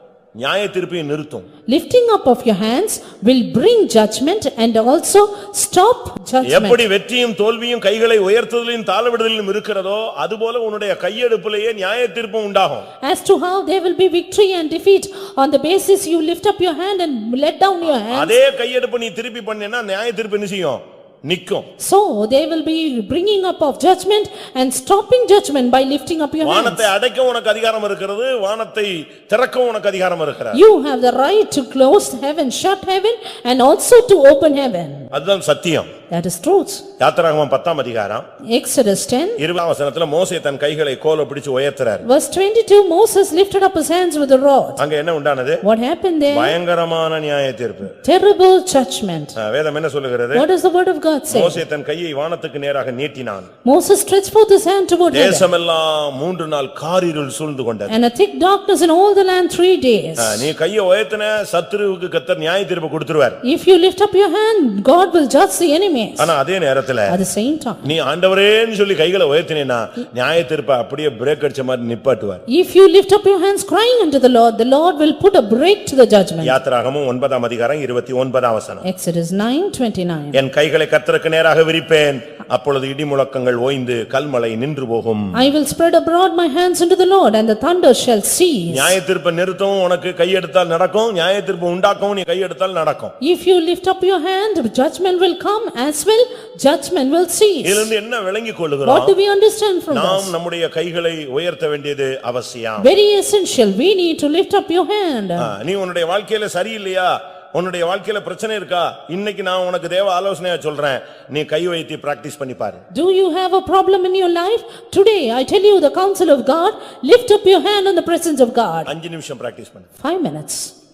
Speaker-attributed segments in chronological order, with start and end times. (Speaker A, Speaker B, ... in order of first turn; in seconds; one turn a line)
Speaker A: 0.4-1.5
Speaker B: 1.7-6.8
Speaker A: 6.4-12.9
Speaker B: 13.0-18.4
Speaker A: 17.8-21.7
Speaker B: 21.8-26.9
Speaker A: 26.4-30.6
Speaker B: 30.5-35.1
Speaker A: 35.1-35.9
Speaker B: 36.1-36.8
Speaker A: 37.0-38.3
Speaker B: 38.5-39.4
Speaker A: 39.4-42.1
Speaker B: 42.0-44.8
Speaker A: 44.8-45.6
Speaker B: 45.6-46.6
Speaker A: 46.3-47.9
Speaker B: 47.9-49.4
Speaker A: 49.4-50.5
Speaker B: 50.3-51.6
Speaker A: 51.3-53.5
Speaker B: 53.6-55.5
Speaker A: 55.1-57.9
Speaker B: 57.9-60.5
Speaker A: 60.2-63.4
Speaker B: 63.4-66.3
Speaker A: 66.2-67.2
Speaker B: 67.0-67.9
Speaker A: 67.8-72.4
Speaker B: 72.5-76.6
Speaker A: 76.4-78.8
Speaker B: 78.8-80.4
Speaker A: 80.3-85.5
Speaker B: 85.3-89.0
Speaker A: 88.7-93.1
Speaker B: 93.2-97.9
Speaker A: 97.6-99.2
Speaker B: 98.8-100.3
Speaker A: 99.9-102.9
Speaker B: 102.8-105.5
Speaker A: 105.4-112.8
Speaker B: 112.9-118.9
Speaker A: 118.8-119.9
Speaker B: 120.0-120.7